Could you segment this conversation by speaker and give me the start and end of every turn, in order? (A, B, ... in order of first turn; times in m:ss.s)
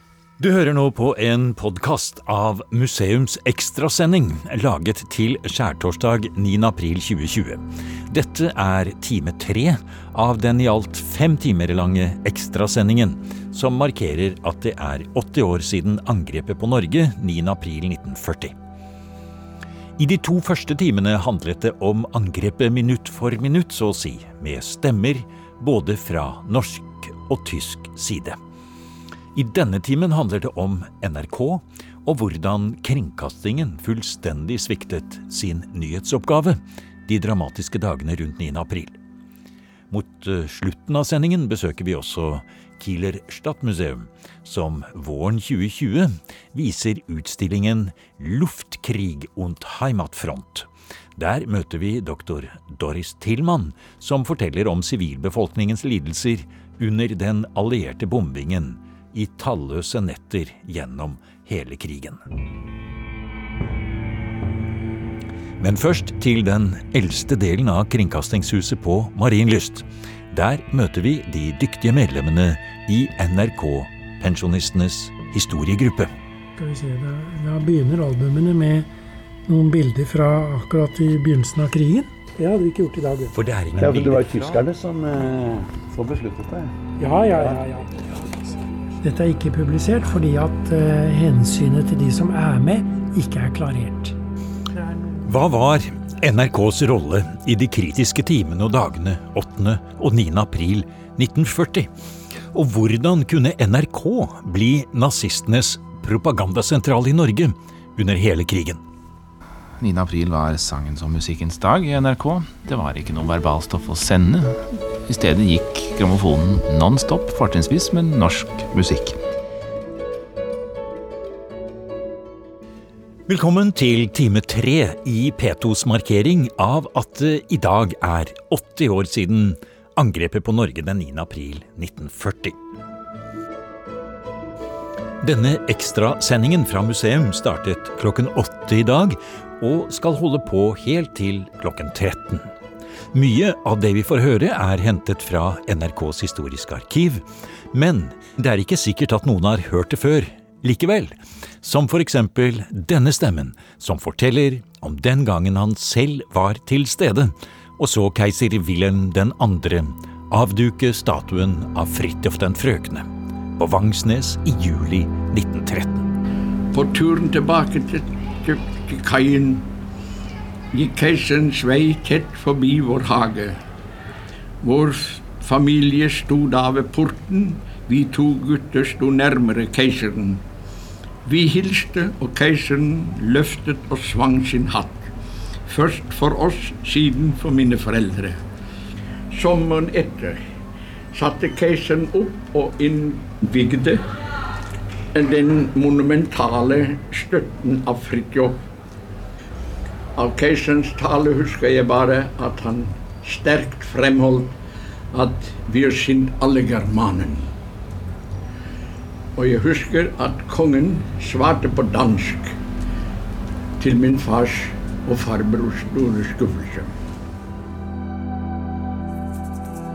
0:00.4-0:18.5 A
0:20.0-0:28.4 A
0:29.4-0:39.0 A
0:39.9-1:02.2 A
1:05.6-1:16.1 A
1:16.6-1:18.9 B
1:19.5-1:23.3 B
1:23.3-1:24.6 A
1:23.8-1:26.7 C
1:27.0-1:34.2 B
1:27.3-1:27.7 C
1:35.2-1:41.9 A
1:42.5-1:48.8 A
1:49.8-1:59.2 D
2:03.3-2:12.6 A
2:15.2-2:22.5 A
2:23.1-2:46.0 A
2:46.7-2:49.7 E
2:50.7-2:53.6 E
2:54.6-3:00.4 E
3:01.2-3:05.0 E
3:05.7-3:08.4 E
3:09.3-3:10.4 E
3:11.1-3:14.1 E
3:15.1-3:18.6 E
3:20.2-3:24.6 E
3:25.1-3:27.5 E
3:29.4-3:32.6 E
3:33.8-3:36.9 E